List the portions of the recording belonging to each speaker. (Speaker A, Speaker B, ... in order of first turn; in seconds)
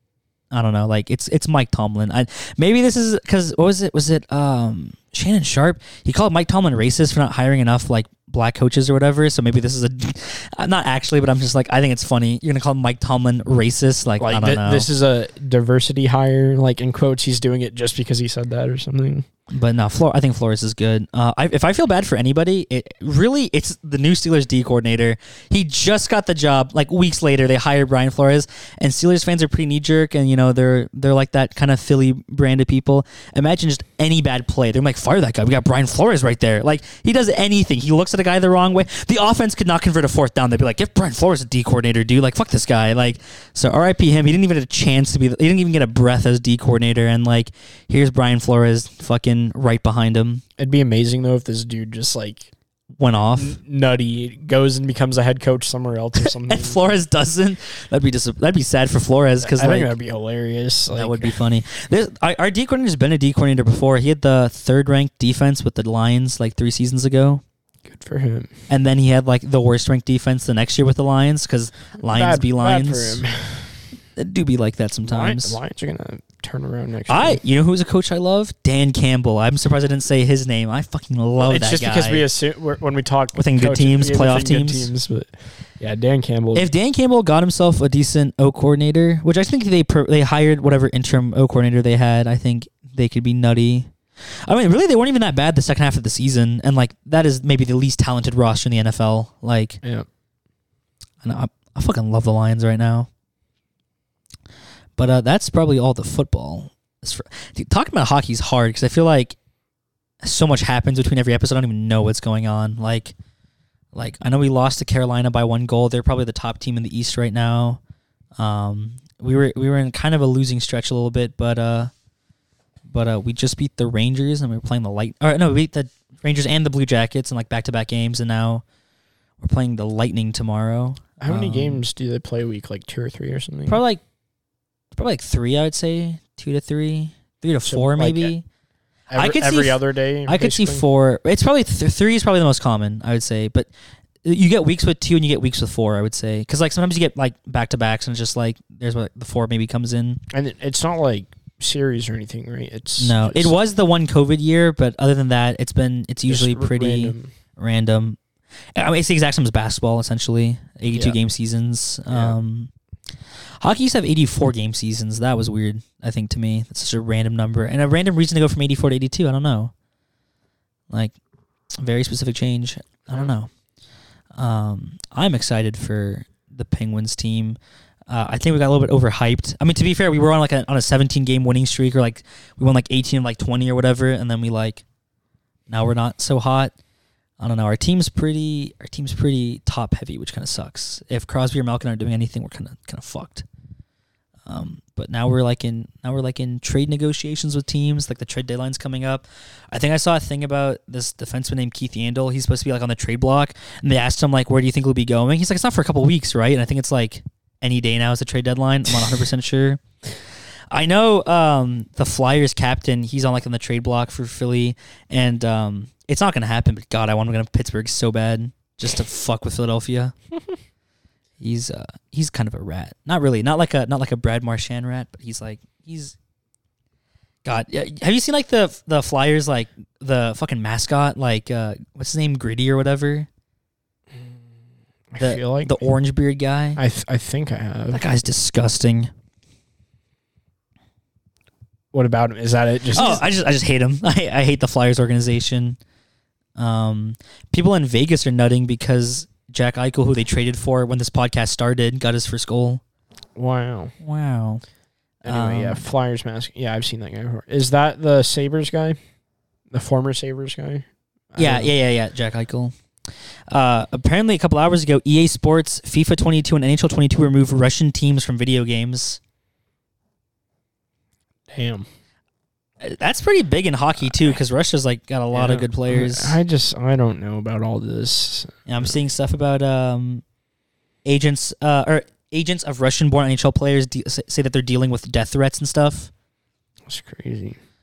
Speaker A: 0.5-14.9, 19.5-50.4, 53.0-53.6, 56.2-59.9, 60.9-67.4, 68.7-73.2, 74.2-75.6, 77.1-82.2, 83.3-84.9, 86.5-99.8, 101.2-103.1, 105.0-109.3, 110.2-113.1, 113.9-117.8, 118.4-121.9, 122.9-128.6, 129.4-131.8, 133.7-134.0, 134.9-138.4, 139.1-143.7, 144.2-150.2, 153.0-158.2, 158.7-162.7, 163.6-169.7, 170.9-171.1, 171.8-173.5, 174.3-184.8, 185.7-186.7, 187.4-193.4, 194.4-209.8, 210.7-220.1, 221.4-226.1, 227.4-233.3, 235.2-236.8, 237.9-239.1, 242.9-245.8, 246.6-252.8, 254.0-254.6, 255.2-255.8, 261.4-262.7, 263.5-269.2, 272.8-276.4, 278.7-280.2, 281.0-286.1
Speaker B: 14.2-19.2, 50.6-52.5, 53.4-56.9, 59.4-61.4, 67.9-68.5, 72.0-73.7, 75.0-77.4, 81.4-86.7, 131.2-133.8, 137.6-138.3, 139.1-140.8, 150.3-153.5, 156.3-157.3, 160.9-161.2, 162.1-162.4, 235.1-235.8, 236.8-238.0, 241.9-243.3, 253.3-253.9, 255.2-259.0, 259.7-261.7, 271.5-271.9, 275.3-278.9, 286.9-287.6